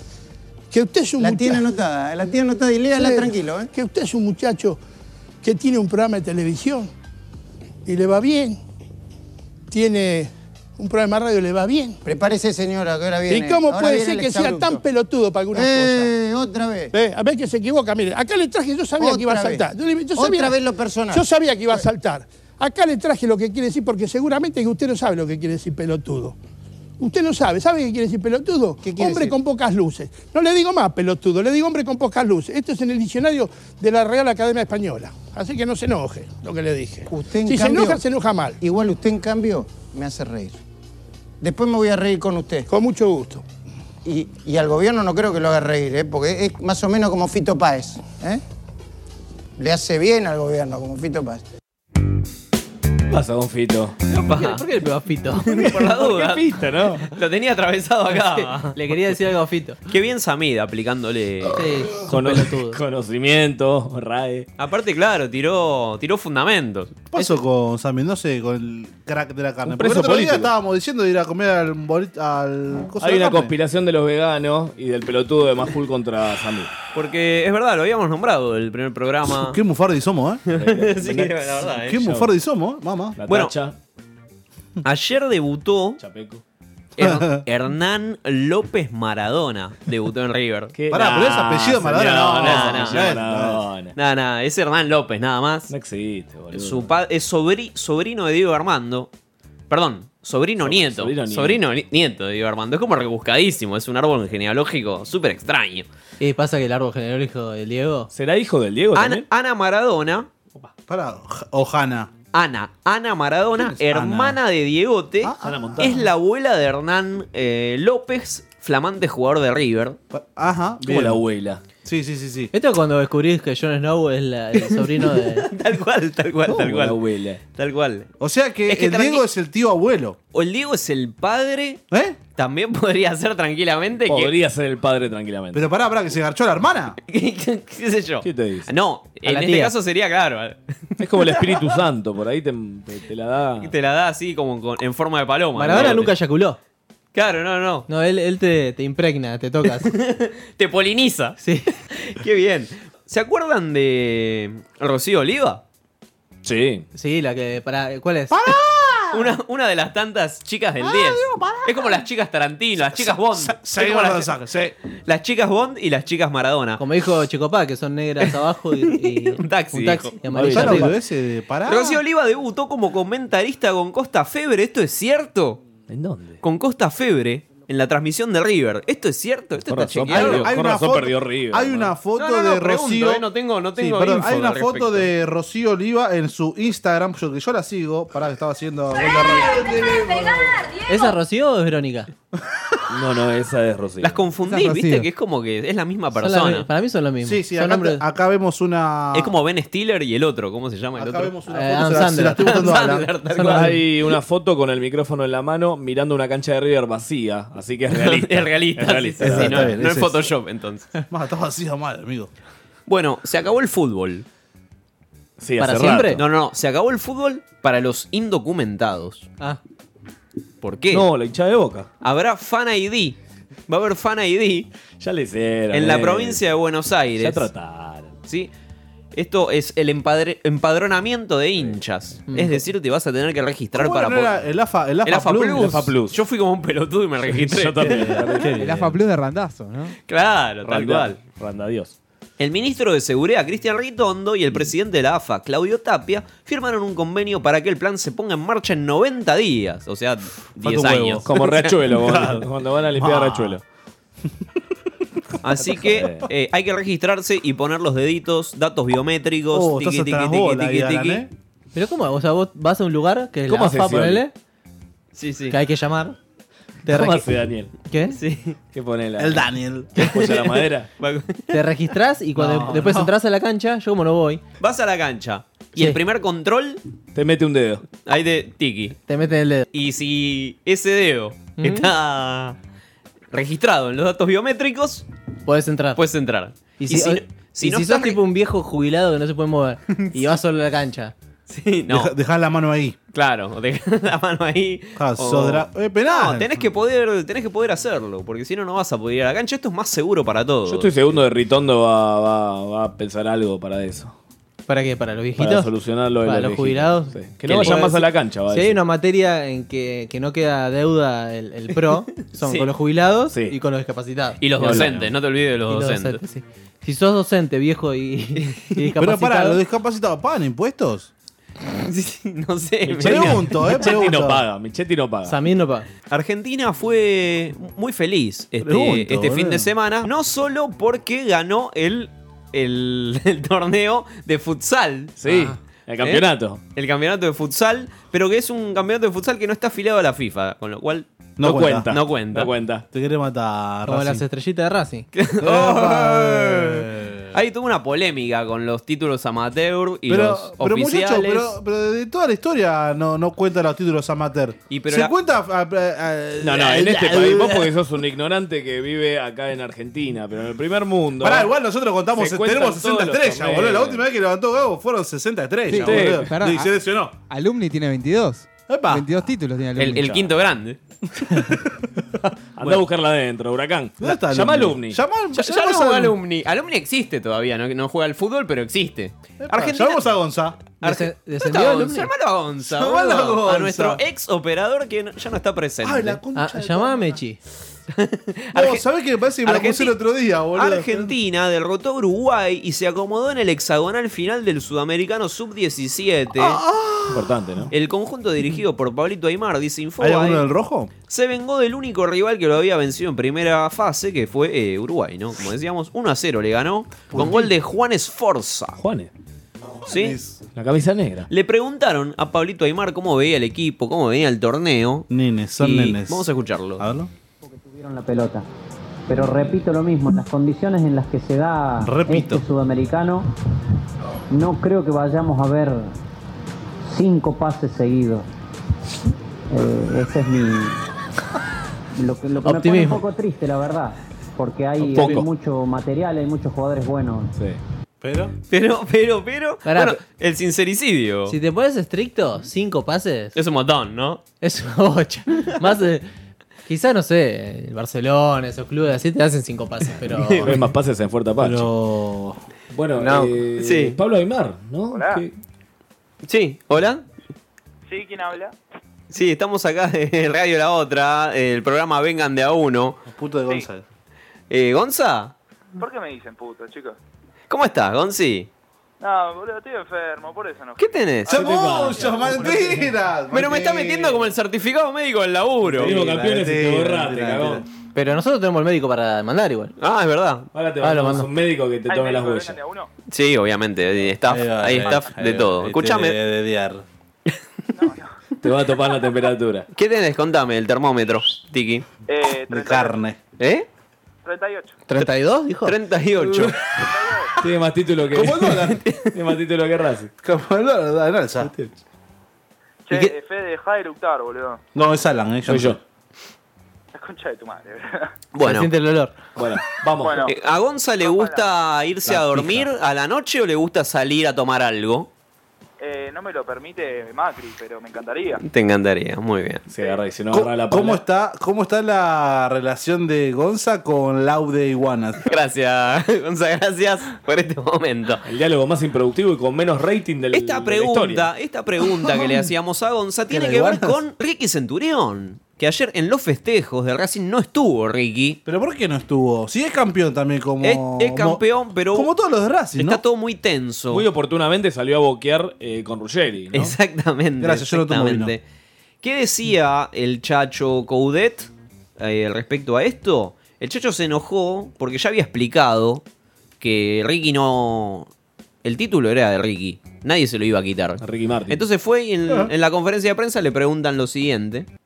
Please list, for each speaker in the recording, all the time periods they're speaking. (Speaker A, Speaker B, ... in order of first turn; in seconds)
Speaker A: 0.7-1.6, 2.9-4.8, 5.4-6.9, 7.9-8.6, 9.7-12.0, 13.3-16.1, 16.9-20.6, 21.1-26.4, 27.0-38.6, 42.7-43.4
Speaker B: 1.2-3.7, 12.1-14.8, 15.5-16.9, 19.0-21.9, 28.8-29.4, 37.1-38.0, 38.6-40.6, 41.4-42.7, 44.0-48.4, 49.6-51.4
Speaker C: 53.1-54.0, 55.8-57.1, 62.1-64.5, 69.7-70.5, 73.0-76.7, 80.5-82.3, 83.2-83.8, 86.0-86.4, 90.7-94.0, 95.7-96.9, 100.6-101.6, 108.1-109.2, 115.4-116.0, 120.9-121.6, 126.5-127.4, 134.1-135.6, 138.2-138.7, 141.0-143.7, 156.4-156.8, 170.3-170.9, 175.9-176.4, 179.7-181.9, 192.9-194.2, 203.5-209.8, 215.4-216.2, 220.9-221.9, 225.0-226.4, 227.2-228.1, 235.6-236.2, 237.3-238.9, 240.6-241.9, 251.2-253.6, 255.7-256.2, 263.5-264.2, 266.9-267.7, 268.7-269.4, 270.0-270.9, 277.1-277.8, 300.7-304.1, 305.4-308.8, 314.6-315.1, 322.9-325.4, 335.2-336.6, 341.4-342.9, 356.4-361.5, 362.1-364.0, 365.8-366.3, 372.6-375.0, 397.1-397.7, 408.8-409.1, 410.6-411.3, 434.8-435.3, 450.4-451.7, 452.7-455.3, 471.3-472.6, 475.7-477.6, 480.5-482.6, 488.4-489.7, 497.4-498.6, 499.1-500.1, 501.4-501.7, 505.5-505.8, 509.4-510.2, 512.1-512.4, 519.7-521.0, 528.2-531.3, 543.9-546.7, 561.0-561.6
Speaker D: 54.1-55.8, 58.2-59.8, 61.5-62.8, 106.2-108.1, 122.5-125.5, 139.2-139.7, 145.6-146.6, 147.9-149.9, 151.4-151.7, 156.9-158.4, 166.8-170.9, 190.9-192.1, 196.2-198.0, 201.5-203.8, 215.6-216.2, 232.3-232.6, 261.8-264.3, 265.5-266.2, 266.9-267.3, 267.9-268.2, 271.5-274.4, 279.1-279.7, 281.6-281.9, 285.5-286.0, 286.8-291.1, 304.7-305.7, 306.2-314.9, 315.7-319.6, 325.2-325.9, 335.3-335.6, 343.9-345.1, 380.8-382.1, 386.4-387.4, 432.4-433.0, 439.6-440.0, 441.3-443.4, 444.4-446.1, 446.7-450.6, 477.9-479.7, 480.8-481.3, 494.9-495.8, 508.4-509.1
Speaker E: 54.2-54.6, 55.4-56.5, 57.1-58.8, 59.9-61.6, 64.6-67.0, 76.9-79.6, 80.5-82.0, 83.3-83.5, 84.8-86.0, 87.0-90.8, 92.4-93.2, 94.0-95.7, 96.5-99.1, 99.7-105.9, 109.0-110.3, 112.3-120.0, 125.2-127.0, 127.5-128.1, 128.7-129.3, 130.3-131.8, 132.4-134.3, 137.1-141.7, 143.6-146.1, 147.1-147.9, 149.8-151.4, 151.9-155.6, 159.1-164.3, 165.1-166.8, 168.9-170.1, 171.7-175.6, 176.4-180.5, 182.1-185.1, 194.0-196.7, 199.1-201.3, 202.4-203.8, 207.9-210.9, 212.9-214.2, 216.2-219.3, 220.6-221.1, 222.0-223.2, 223.7-224.7, 225.7-227.5, 228.3-228.5, 229.2-234.4, 235.1-238.3, 240.1-241.2, 242.4-251.6, 255.4-261.3, 265.1-265.6, 268.1-268.6, 270.0-271.6, 274.6-276.8, 278.1-279.0, 279.7-282.6, 283.3-285.1, 286.0-288.2, 289.9-290.3, 291.5-292.1, 293.1-300.9, 307.5-308.0, 312.4-312.7, 314.4-316.2, 318.4-318.7, 321.8-323.9, 326.1-335.2, 336.0-341.1, 341.9-342.5, 345.1-346.8, 347.3-351.5, 354.7-355.1, 369.8-370.8, 375.3-380.1, 380.6-386.2, 387.9-388.9, 389.4-390.0, 390.5-396.6, 397.7-400.4, 401.1-408.8, 409.9-410.2, 411.3-415.1, 415.6-416.8, 438.5-441.4, 443.4-444.2, 450.1-450.6, 453.0-454.0, 456.2-457.1, 459.1-463.0, 464.5-465.3, 467.5-468.5, 470.8-471.4, 473.3-476.0, 479.8-480.5, 483.1-486.2, 489.7-491.9, 493.4-493.7, 495.6-496.6, 498.5-499.1, 508.3-508.7, 510.2-515.1, 518.4-519.6, 525.3-528.2, 530.3-538.4, 540.6-542.1, 542.8-544.1, 546.5-548.4, 549.0-556.0, 556.6-558.1, 558.6-564.7
Speaker F: 67.1-73.5, 79.3-80.4, 81.8-83.2, 87.0-87.4, 90.9-93.6, 110.9-112.1, 113.6-114.4, 115.2-115.9, 120.1-121.2, 121.8-122.5, 128.2-130.2, 131.9-132.2, 135.5-137.0, 158.3-159.3, 160.8-161.9, 162.8-164.7, 170.5-172.0, 180.1-183.2, 183.8-190.7, 197.2-199.3, 201.0-203.1, 209.2-210.2, 211.1-212.3, 233.8-235.9, 238.2-238.7, 250.6-252.4, 253.0-253.6, 259.5-261.3, 269.2-269.9, 272.4-273.1, 291.9-293.0, 295.0-296.7, 319.0-321.1, 323.0-324.4, 328.6-329.7, 341.4-341.9, 342.9-344.2, 345.4-347.3, 350.1-357.7, 361.2-367.1, 368.7-369.1, 374.0-376.2, 379.4-380.6, 382.6-384.0, 385.8-387.2, 388.6-391.1, 396.4-397.3, 400.0-400.9, 407.1-407.5, 409.8-410.4, 415.1-416.3, 416.8-417.1, 421.8-422.4, 438.0-438.3, 451.4-452.4, 463.1-463.9, 471.3-474.2, 475.7-477.6, 484.3-486.8, 492.5-493.2, 498.1-498.8, 500.2-501.5, 504.8-505.8, 520.3-525.2, 533.3-534.0, 538.5-541.4, 541.9-543.0, 547.4-548.4
Speaker G: 194.4-195.1, 238.6-240.0, 365.7-366.7, 367.3-370.3
Speaker H: 417.4-418.5, 419.1-423.3, 424.3-425.9, 426.9-428.3, 429.5-430.8, 432.0-437.3
Speaker I: 454.9-455.2, 457.9-458.5, 465.8-467.0, 469.0-470.9, 481.9-482.9, 487.7-488.1, 492.1-493.0, 494.2-494.8, 496.8-497.3, 502.9-504.6, 506.9-508.1, 510.0-510.3, 511.0-511.5, 515.8-518.4